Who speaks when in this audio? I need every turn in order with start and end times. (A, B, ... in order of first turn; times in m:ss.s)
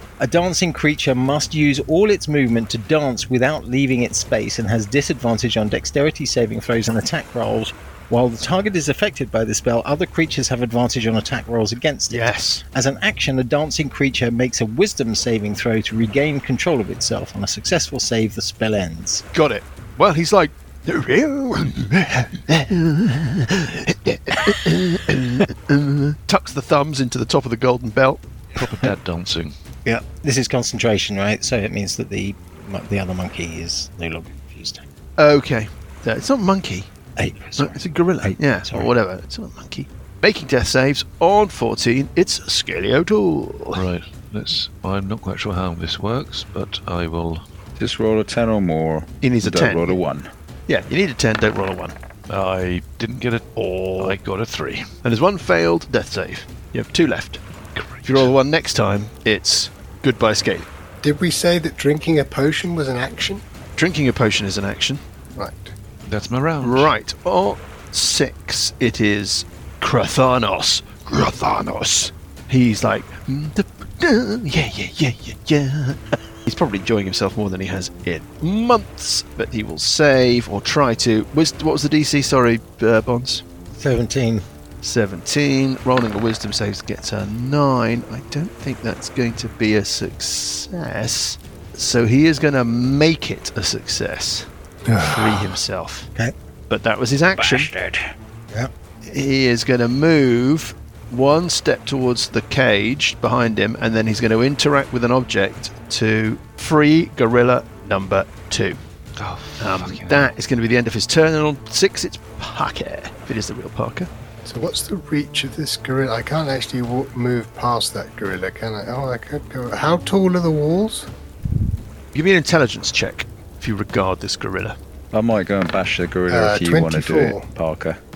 0:00.2-0:19.2 A
0:12.1-0:12.6 B
0:19.3-0:28.2 B
0:28.6-0:29.5 C
0:29.9-0:34.8 A
0:35.2-0:36.9 B
0:37.2-0:38.9 A
0:37.6-0:43.8 B
0:43.7-0:47.4 C
0:47.8-0:50.3 D
0:49.2-0:50.0 B
0:50.7-0:52.0 B
0:52.3-0:54.9 C
0:53.6-0:54.2 B
0:55.0-0:57.4 B
0:57.8-0:58.3 C
0:58.0-1:00.7 B
1:01.0-1:03.4 E
1:03.8-1:05.0 B
1:05.4-1:05.7 E
1:06.1-1:06.9 C
1:06.6-1:23.4 B
1:23.7-1:24.4 A
1:24.8-1:34.5 B
1:34.9-1:35.4 E
1:35.0-1:36.1 B
1:36.7-1:37.7 B
1:37.4-1:38.1 D
1:39.0-1:48.8 B
1:49.2-1:50.3 C
1:49.6-1:54.1 B
1:54.4-2:01.1 E
2:02.1-2:04.8 B
2:05.1-2:08.0 D
2:06.3-2:07.5 E